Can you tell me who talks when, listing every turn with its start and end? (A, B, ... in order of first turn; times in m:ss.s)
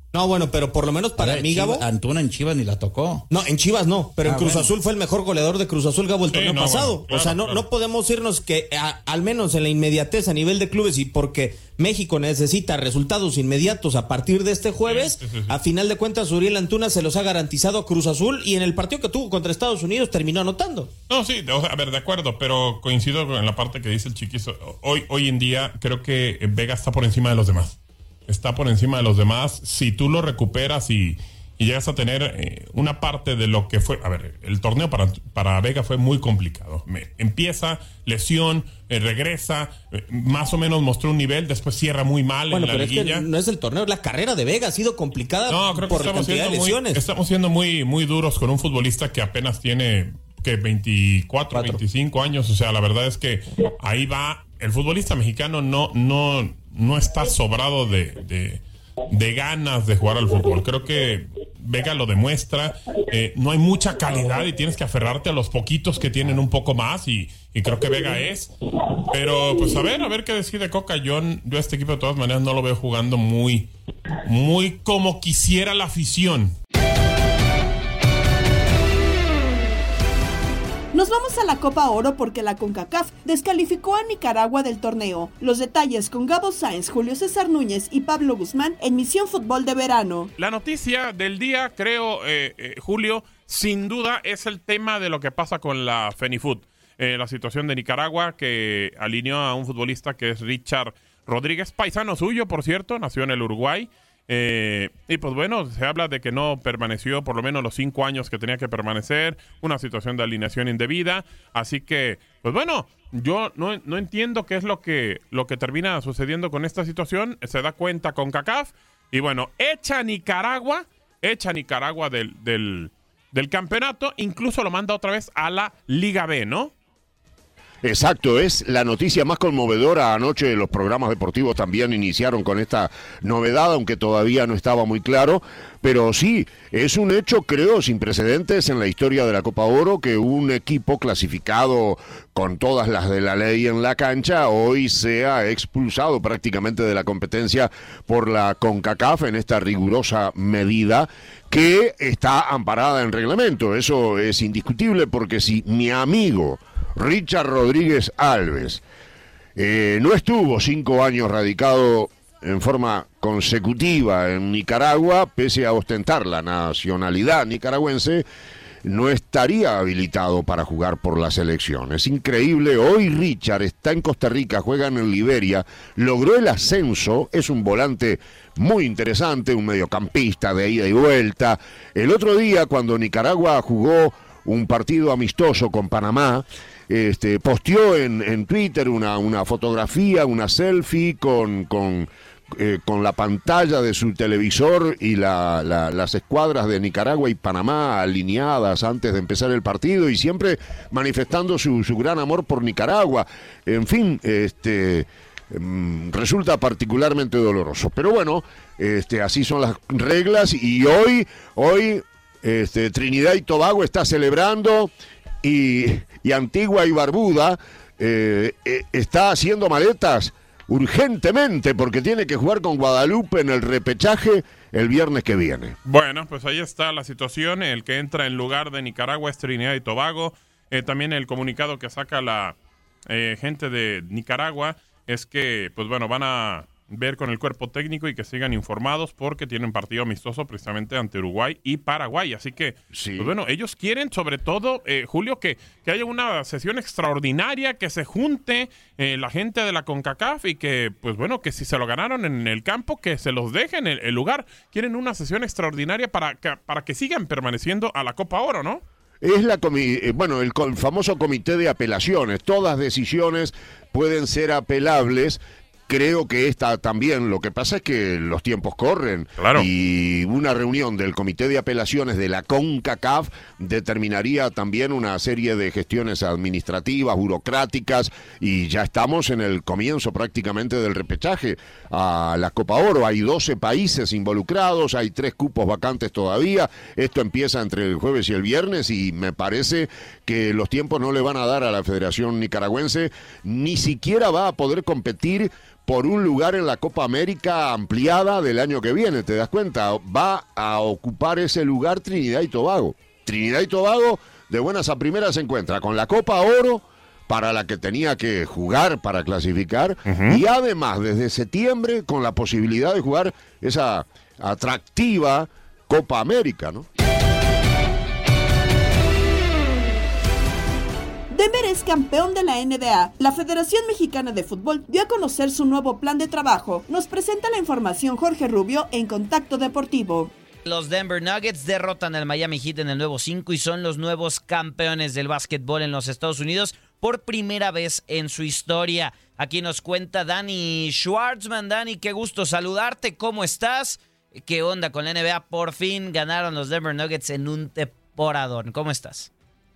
0:00.1-0:01.9 A
0:01.2-0:03.3 B
0:03.3-0:20.9 A
0:04.2-0:04.7 B
0:06.3-0:07.7 C
0:14.9-0:15.6 C
0:21.1-0:27.8 C
0:28.3-0:43.3 C
0:42.5-0:47.0 A
0:45.5-1:08.5 C
0:51.5-0:51.8 A
1:09.1-1:13.7 C
1:14.3-1:16.6 C
1:20.9-1:30.3 D
1:30.4-2:06.7 C
2:07.8-2:38.8 E
2:39.6-2:48.2 E
2:48.8-3:34.9 E
3:35.4-3:45.8 E
3:45.8-3:52.6 C
3:53.1-4:18.8 C
4:02.9-4:03.4 E
4:19.2-5:16.8 E
4:29.4-4:29.7 C
5:10.1-5:10.4 C
5:21.3-5:30.3 D
5:30.7-5:49.3 F